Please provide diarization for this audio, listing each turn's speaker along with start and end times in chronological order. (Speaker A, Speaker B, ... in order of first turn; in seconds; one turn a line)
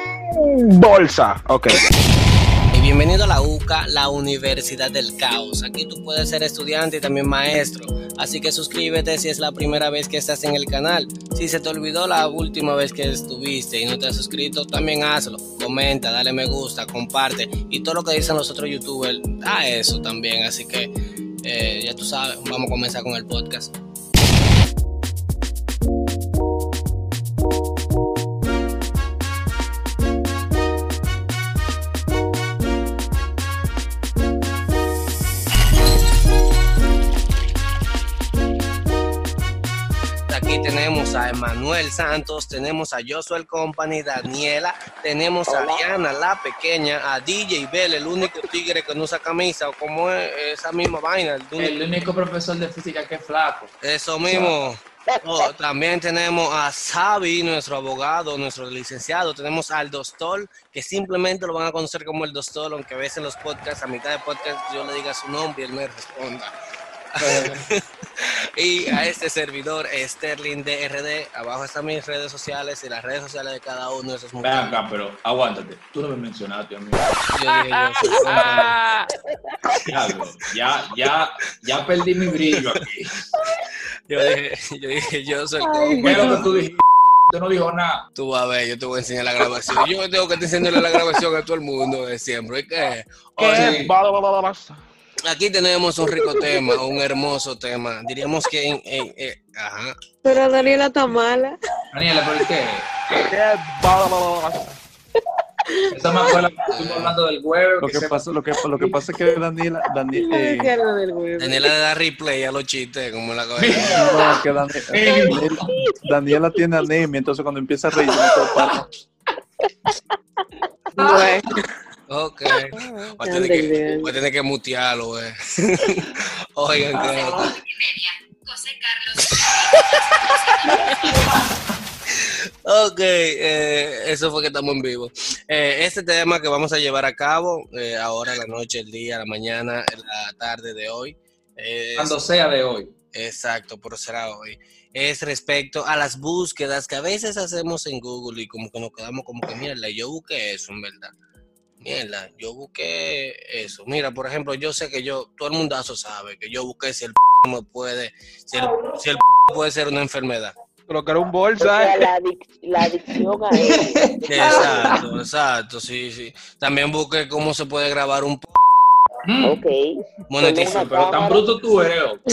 Speaker A: 0.7-1.9
Speaker B: 2.7-20.9
Speaker B: 21.4-23.7
Speaker B: 40.3-51.8
Speaker C: 45.5-45.8
Speaker D: 51.6-53.7
Speaker B: 53.8-66.5
Speaker D: 54.3-54.5
Speaker C: 55.1-55.5
Speaker B: 67.2-74.8
Speaker D: 67.2-67.6
Speaker D: 74.4-77.1
Speaker B: 77.3-78.7
Speaker D: 78.3-78.7
Speaker A: 78.5-78.9
Speaker D: 79.8-83.2
Speaker B: 84.1-86.5
Speaker D: 86.0-88.0
Speaker B: 88.1-93.8
Speaker D: 93.4-93.9
Speaker A: 93.4-94.8
Speaker B: 95.2-100.7
Speaker E: 100.2-101.6
Speaker D: 101.9-102.9
Speaker A: 103.3-104.7
Speaker E: 105.7-106.3
Speaker D: 105.9-108.2
Speaker B: 106.7-107.1
Speaker F: 107.8-110.7
Speaker E: 110.1-111.7
Speaker B: 111.4-114.0
Speaker D: 113.6-114.4
Speaker F: 113.9-118.8
Speaker D: 114.9-115.7
Speaker E: 121.0-121.4
Speaker D: 121.0-121.3
Speaker B: 122.1-127.4
Speaker C: 122.8-123.1
Speaker E: 123.2-124.1
Speaker D: 126.9-127.6
Speaker B: 130.6-131.0
Speaker B: 132.6-142.2
Speaker D: 142.0-142.9
Speaker B: 143.1-151.1
Speaker B: 151.8-160.5
Speaker A: 160.9-162.1
Speaker C: 161.6-164.9
Speaker D: 163.7-165.1
Speaker B: 164.3-168.9
Speaker D: 169.2-169.6
Speaker C: 169.4-171.5
Speaker B: 170.3-171.0
Speaker D: 170.7-172.2